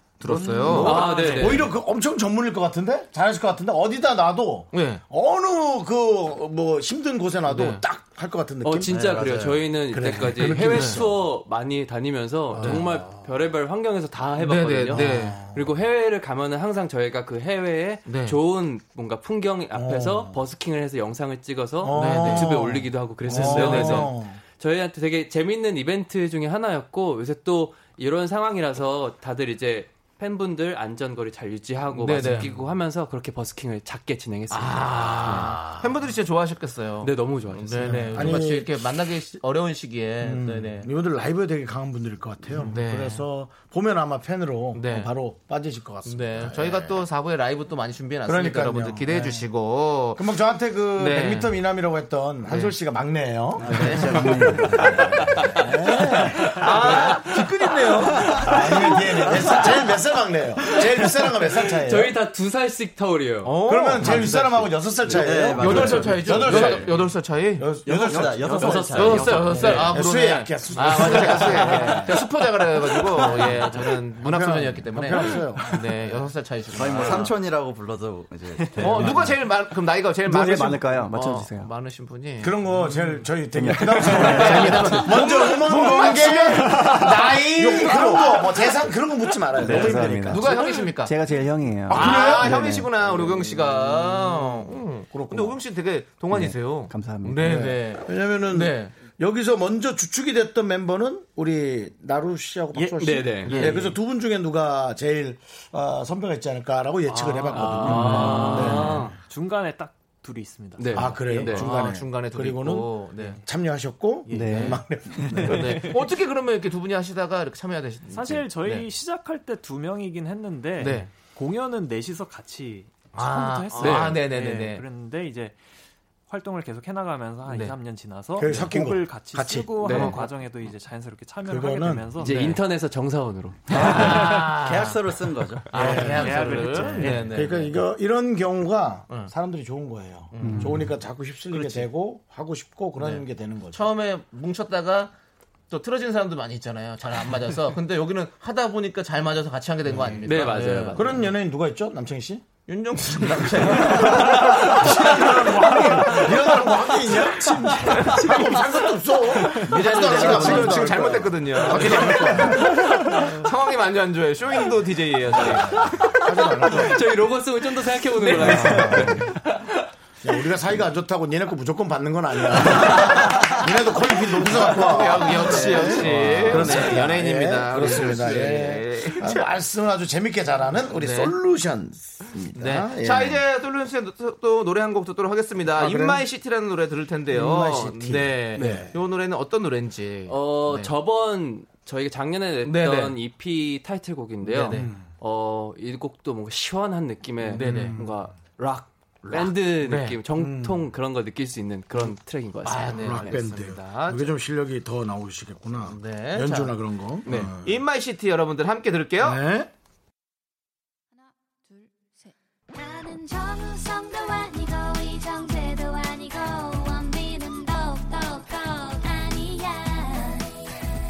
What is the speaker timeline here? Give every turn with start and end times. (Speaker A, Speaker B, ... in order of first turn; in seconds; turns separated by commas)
Speaker A: 0.2-1.6, Speaker B: 0.3-11.3, Speaker C: 0.3-1.6, Speaker D: 0.7-1.7, Speaker A: 4.7-5.0, Speaker A: 7.5-7.8, Speaker D: 8.6-35.7, Speaker E: 8.9-9.6, Speaker A: 10.5-11.0, Speaker B: 12.5-13.1, Speaker A: 14.4-15.4, Speaker B: 14.9-15.7, Speaker A: 18.1-18.4, Speaker B: 19.7-20.4, Speaker B: 21.8-24.4, Speaker A: 21.9-24.1, Speaker A: 32.0-32.6, Speaker B: 32.2-32.6, Speaker A: 34.5-40.9, Speaker B: 35.4-35.9, Speaker D: 37.0-38.3, Speaker B: 37.9-38.9, Speaker B: 40.2-47.0, Speaker A: 42.6-43.2, Speaker A: 44.8-45.1, Speaker A: 46.1-50.2, Speaker B: 48.3-49.5, Speaker B: 50.1-57.2, Speaker A: 51.0-51.5, Speaker A: 52.5-52.8, Speaker E: 53.6-55.2, Speaker A: 53.6-55.0, Speaker D: 55.3-57.0, Speaker A: 56.4-58.7, Speaker B: 58.1-62.2, Speaker A: 59.3-59.7, Speaker D: 61.7-63.6, Speaker A: 63.4-67.7, Speaker B: 63.6-69.0, Speaker E: 65.0-66.9, Speaker E: 67.8-69.8, Speaker D: 68.4-70.0, Speaker A: 68.9-77.3, Speaker B: 69.6-72.3, Speaker B: 72.8-76.2, Speaker E: 76.8-79.4, Speaker C: 78.6-79.3, Speaker A: 78.8-82.5, Speaker F: 80.2-81.7, Speaker B: 82.4-90.7, Speaker C: 82.8-83.2, Speaker F: 83.5-85.1, Speaker A: 84.0-88.6, Speaker F: 89.6-92.9, Speaker A: 89.6-91.1, Speaker B: 91.9-93.3, Speaker A: 91.9-98.9, Speaker B: 95.1-95.6, Speaker F: 96.3-97.7, Speaker B: 97.4-109.1, Speaker C: 102.8-104.0, Speaker D: 103.0-103.8, Speaker C: 107.1-111.5, Speaker A: 107.8-109.1, Speaker D: 107.8-109.2, Speaker D: 110.8-111.7, Speaker B: 110.9-115.7, Speaker A: 111.2-113.4, Speaker C: 114.3-116.0, Speaker F: 114.3-114.8, Speaker A: 115.4-118.9, Speaker C: 118.1-125.6, Speaker A: 120.8-121.1, Speaker A: 123.1-124.8, Speaker D: 123.8-124.2, Speaker C: 126.3-132.6, Speaker A: 127.5-127.8, Speaker B: 128.4-130.2, Speaker D: 129.8-130.2, Speaker A: 129.9-130.2, Speaker B: 131.4-132.2, Speaker D: 132.2-133.8, Speaker A: 133.7-135.0, Speaker E: 134.6-135.7, Speaker A: 135.7-137.7, Speaker B: 135.7-136.5, Speaker C: 135.7-137.5, Speaker B: 137.3-143.8, Speaker A: 140.3-140.8, Speaker A: 141.5-141.9, Speaker A: 143.0-145.1, Speaker A: 145.7-151.3, Speaker B: 149.9-150.2, Speaker D: 150.2-151.1, Speaker B: 150.9-152.4, Speaker A: 152.7-158.6, Speaker B: 153.2-162.9, Speaker D: 157.9-158.6, Speaker A: 159.5-165.9, Speaker D: 159.6-160.9, Speaker D: 166.0-169.8, Speaker B: 166.0-167.1, Speaker B: 168.2-169.3, Speaker A: 168.2-169.1, Speaker B: 170.2-183.4, Speaker A: 174.4-179.5, Speaker A: 180.9-181.4, Speaker A: 182.6-190.9, Speaker B: 185.7-186.2, Speaker B: 187.3-189.0, Speaker D: 188.6-188.9, Speaker D: 190.3-203.5, Speaker A: 192.6-193.2, Speaker A: 194.4-194.9, Speaker B: 194.7-195.1, Speaker B: 197.5-198.2, Speaker A: 197.6-198.0, Speaker A: 199.2-200.2, Speaker B: 200.4-200.8, Speaker A: 202.6-204.3, Speaker B: 203.0-207.8, Speaker A: 205.9-209.4, Speaker B: 209.2-209.7, Speaker G: 212.7-220.6